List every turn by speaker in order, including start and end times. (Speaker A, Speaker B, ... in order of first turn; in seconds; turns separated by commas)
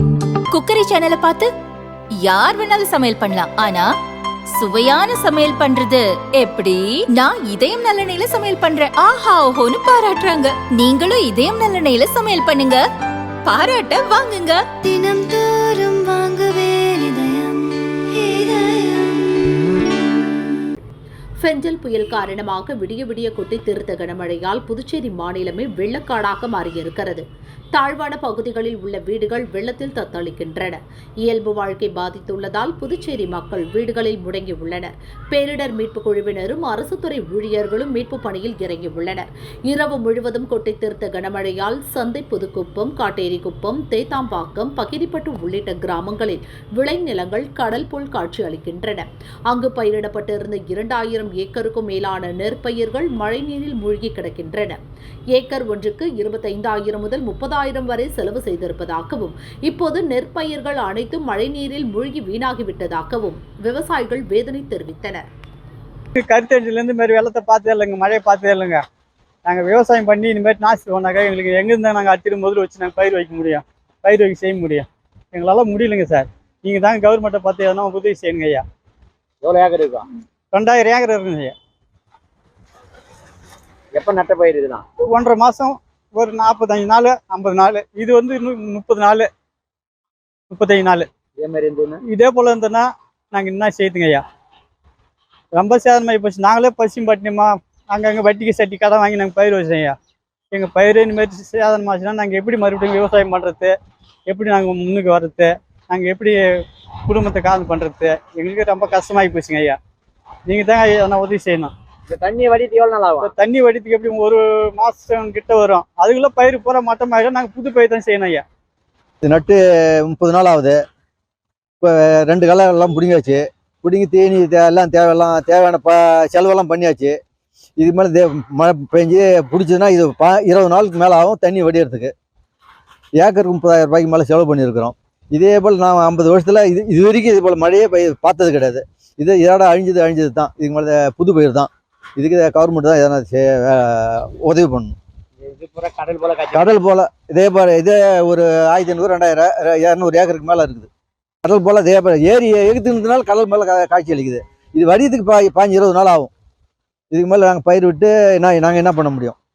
Speaker A: 0.5-1.5, Speaker A: 2.2-3.9, Speaker A: 4.6-12.8, Speaker A: 13.5-14.6, Speaker B: 14.8-20.0, Speaker C: 21.4-27.2, Speaker C: 27.8-54.8, Speaker C: 55.3-65.2, Speaker D: 66.2-68.8, Speaker D: 69.5-78.6, Speaker E: 79.4-80.1, Speaker D: 80.5-81.5, Speaker E: 83.9-84.9, Speaker D: 85.0-89.3, Speaker D: 90.5-91.1, Speaker E: 91.4-92.0, Speaker D: 92.1-94.2, Speaker D: 95.5-100.0, Speaker D: 100.5-103.7, Speaker D: 104.3-109.8, Speaker D: 110.5-111.7, Speaker E: 112.1-113.3, Speaker D: 113.2-118.4, Speaker F: 119.2-120.8, Speaker F: 121.8-127.2, Speaker F: 127.8-132.1, Speaker F: 133.2-145.0, Speaker E: 145.4-146.8, Speaker F: 146.5-150.9, Speaker F: 151.4-156.3, Speaker F: 157.1-159.4